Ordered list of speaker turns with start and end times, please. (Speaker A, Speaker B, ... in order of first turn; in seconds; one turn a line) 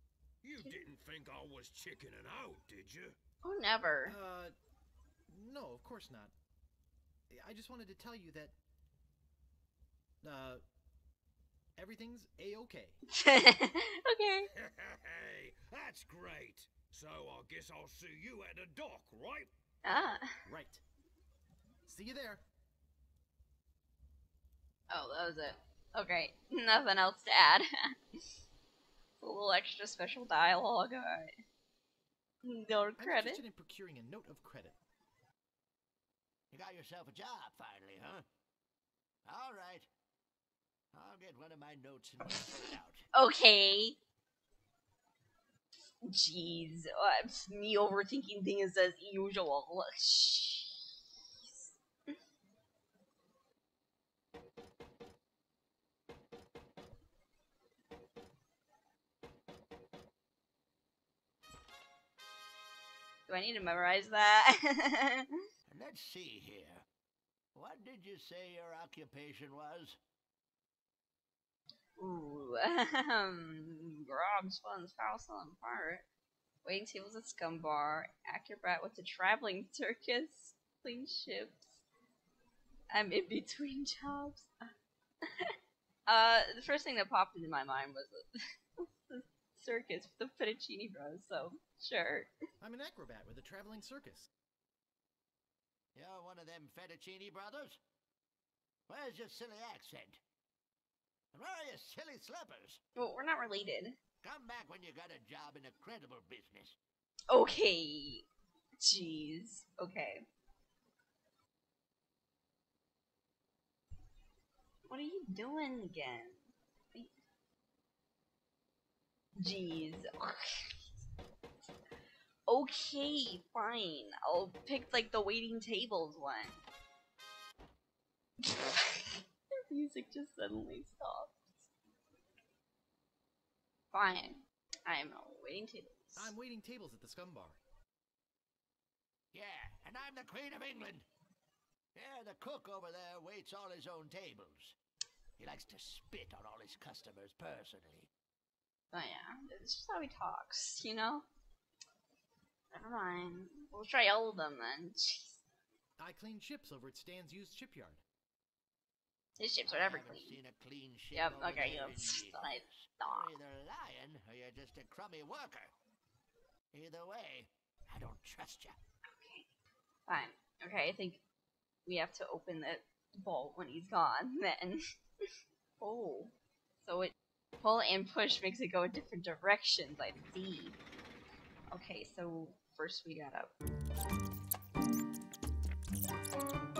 Speaker A: 0.4-3.1
Speaker B: 3.4-4.1
Speaker C: 4.0-4.5
Speaker C: 5.3-6.3
Speaker C: 7.3-8.5
Speaker C: 10.2-10.6
Speaker C: 11.8-13.0
Speaker B: 13.1-14.5
Speaker A: 14.5-19.5
Speaker B: 19.8-20.4
Speaker C: 20.4-20.8
Speaker C: 21.9-22.4
Speaker B: 24.9-27.9
Speaker B: 29.2-31.3
Speaker B: 32.4-33.4
Speaker C: 33.0-34.8
Speaker D: 36.5-38.2
Speaker D: 39.2-39.9
Speaker D: 40.9-43.0
Speaker B: 43.1-44.0
Speaker B: 46.0-50.8
Speaker B: 63.3-65.3
Speaker D: 65.7-66.8
Speaker D: 67.5-70.0
Speaker B: 72.0-76.0
Speaker B: 76.6-81.8
Speaker B: 82.9-84.7
Speaker B: 85.2-85.5
Speaker B: 86.1-88.2
Speaker B: 88.8-92.3
Speaker C: 92.6-94.3
Speaker D: 95.9-97.8
Speaker D: 98.9-100.2
Speaker D: 101.3-102.8
Speaker B: 103.0-104.0
Speaker D: 104.2-106.8
Speaker B: 107.3-108.2
Speaker B: 108.8-110.2
Speaker B: 114.9-116.4
Speaker B: 119.4-120.7
Speaker B: 122.5-126.6
Speaker B: 128.4-131.5
Speaker B: 133.9-136.3
Speaker C: 136.1-137.6
Speaker D: 139.3-141.0
Speaker D: 141.9-144.7
Speaker D: 145.4-148.1
Speaker B: 148.9-151.2
Speaker B: 152.7-155.4
Speaker C: 156.0-158.0
Speaker B: 159.4-160.4
Speaker D: 159.7-165.7
Speaker B: 161.1-163.3
Speaker D: 166.7-168.8
Speaker B: 169.1-169.5
Speaker B: 170.1-171.2
Speaker B: 171.8-175.3
Speaker B: 175.8-180.8
Speaker B: 181.7-183.5